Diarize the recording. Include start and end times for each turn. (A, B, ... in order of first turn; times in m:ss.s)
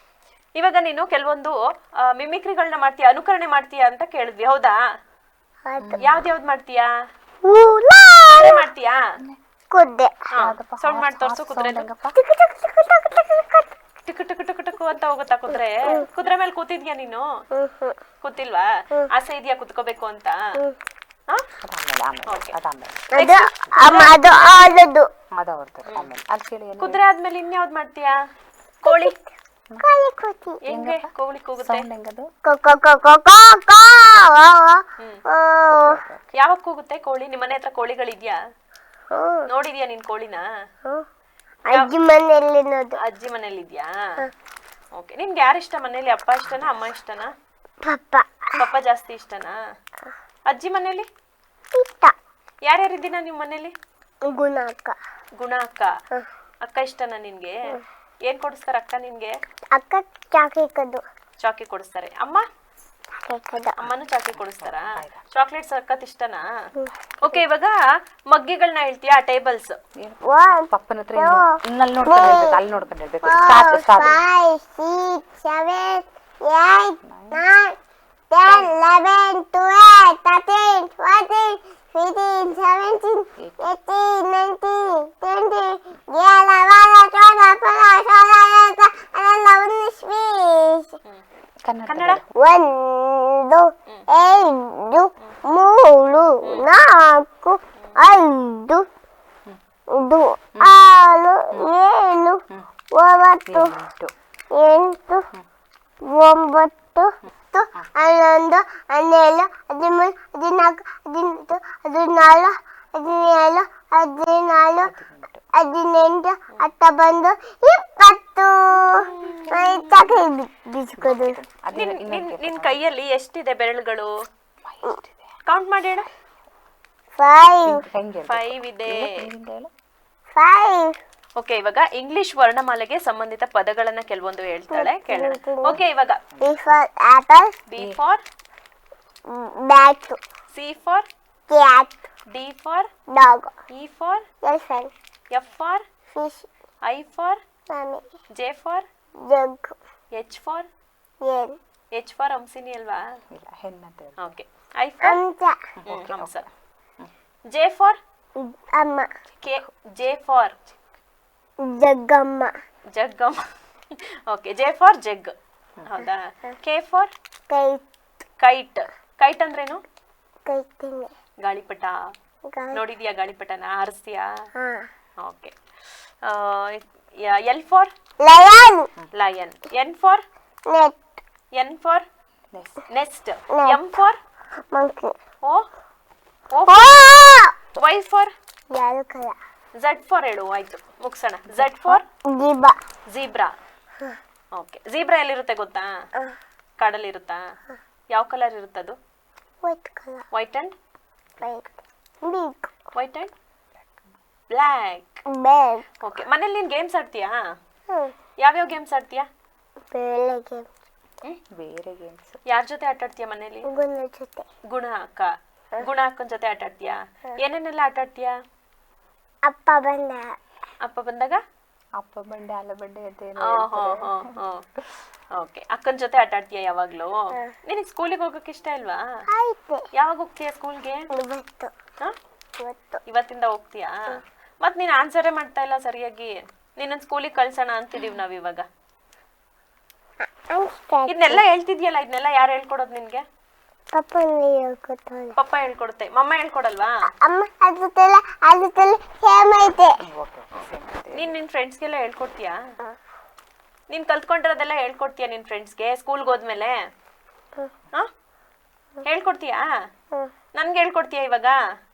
0:00.6-0:04.8 A
0:05.6-0:06.0 B
0:05.8-0:06.3 C
0:06.0-0:06.9 A
0:07.4-0:08.7 B
0:08.3-0:09.1 A
0:09.7-0:10.3 B
0:10.4-0:11.9 A
0:10.4-0:12.2 C
0:12.2-0:13.8 B
0:14.1-0:17.3 A
0:17.5-0:18.0 B
0:18.2-0:20.6 A
0:21.6-0:23.1 C
0:22.3-0:22.6 A
0:23.1-0:24.5 A
0:23.1-0:25.1 B
0:25.3-0:27.0 C
0:26.8-0:28.2 A
0:28.8-0:29.2 A
0:28.8-0:29.2 B
0:29.8-0:30.6 B
0:30.7-0:31.9 A
0:30.7-0:32.3 C
0:32.4-0:36.0 B
0:35.7-0:36.3 C
0:36.4-0:38.4 A
0:39.1-0:39.5 B
0:39.5-0:40.5 A
0:41.7-0:43.0 B
0:43.0-0:44.2 A
0:45.0-0:47.3 A
0:46.5-0:46.8 C
0:47.8-0:48.6 B
0:48.6-0:49.6 A
0:50.5-0:51.1 A
0:51.7-0:52.2 B
0:52.7-0:53.7 A
0:54.2-0:55.0 B
0:55.4-0:55.9 A
0:56.6-0:59.4 A
0:59.7-1:01.0 B
1:01.4-1:02.4 A
1:03.1-1:03.8 B
1:03.8-1:06.5 A
1:03.8-1:05.2 C
1:07.2-1:07.8 A
1:08.3-1:09.8 A
1:10.0-1:14.2 C
1:10.2-1:12.6 B
1:13.2-1:17.8 B
1:17.0-1:17.4 C
1:18.3-1:31.0 B
1:23.4-1:23.7 C
1:31.6-1:32.3 C
1:31.9-1:32.2 A
1:32.4-1:38.9 B
1:36.4-1:36.7 A
1:39.9-1:43.8 B
1:43.5-1:44.1 C
1:44.5-1:45.3 B
1:46.0-1:54.9 B
1:54.8-1:55.4 C
1:55.5-2:01.4 B
1:58.7-2:00.2 A
1:59.2-1:59.5 C
2:01.0-2:02.8 C
2:01.7-2:04.1 A
2:04.6-2:05.3 C
2:05.5-2:06.1 A
2:07.2-2:07.8 B
2:07.6-2:09.7 C
2:08.3-2:09.3 A
2:10.3-2:11.0 B
2:11.4-2:16.2 A
2:14.7-2:15.8 B
2:15.7-2:16.6 C
2:16.4-2:17.6 B
2:17.7-2:18.2 A
2:19.3-2:20.2 B
2:20.5-2:21.1 A
2:21.5-2:22.0 B
2:22.3-2:22.9 A
2:23.1-2:23.6 B
2:23.7-2:24.3 A
2:24.4-2:24.9 B
2:25.3-2:25.9 A
2:26.1-2:26.5 B
2:26.8-2:27.4 A
2:27.7-2:28.1 B
2:28.3-2:28.9 A
2:29.2-2:29.8 B
2:30.1-2:30.7 A
2:31.2-2:31.6 B
2:31.9-2:33.2 A
2:33.3-2:34.3 C
2:34.2-2:35.2 A
2:35.0-2:35.6 B
2:35.8-2:36.5 C
2:35.9-2:36.5 A
2:37.5-2:38.0 A
2:38.4-2:39.1 B
2:39.4-2:40.6 A
2:41.6-2:42.5 B
2:42.9-2:43.5 A
2:44.3-2:45.4 A
2:45.9-2:47.1 A
2:47.5-2:47.8 B
2:48.4-2:49.8 A
2:50.5-2:51.1 B
2:51.4-2:52.1 A
2:52.5-2:52.8 B
2:52.7-2:54.5 A
2:54.6-2:54.9 B
2:55.2-2:55.6 A
2:56.2-2:57.9 A
2:58.2-2:58.9 B
2:59.1-3:00.2 A
3:00.7-3:01.0 B
3:01.5-3:02.0 A
3:02.5-3:02.9 C
3:02.9-3:04.2 A
3:03.5-3:03.9 B
3:04.7-3:05.2 B
3:06.5-3:07.0 A
3:06.7-3:07.6 B
3:07.8-3:08.3 A
3:08.7-3:09.4 B
3:09.8-3:12.0 A
3:11.5-3:12.0 C
3:12.3-3:12.8 B
3:13.1-3:13.5 A
3:14.5-3:16.0 A
3:16.8-3:17.6 A
3:18.1-3:19.0 A
3:19.6-3:20.3 B
3:20.3-3:20.8 A
3:21.4-3:22.7 B
3:23.0-3:23.3 A
3:24.5-3:25.2 A
3:25.3-3:25.9 B
3:26.0-3:27.6 A
3:27.9-3:28.1 B
3:28.4-3:29.3 A
3:29.9-3:30.7 B
3:31.5-3:32.4 C
3:32.5-3:33.7 A
3:33.7-3:34.5 B
3:34.7-3:38.4 A
3:39.5-3:40.4 B
3:40.8-3:41.4 A
3:42.0-3:44.4 C
3:43.4-3:44.7 A
3:45.3-3:49.2 A
3:49.3-3:49.9 B
3:49.9-3:51.1 A
3:51.1-3:51.7 B
3:52.6-3:53.0 B
3:53.1-3:58.7 A
4:00.2-4:01.4 B
4:01.1-4:03.2 A
4:03.9-4:05.4 B
4:05.4-4:07.1 A
4:07.1-4:10.0 B
4:10.0-4:11.3 C
4:10.6-4:12.6 A
4:13.9-4:16.8 A
4:19.0-4:19.7 A
4:20.6-4:21.6 A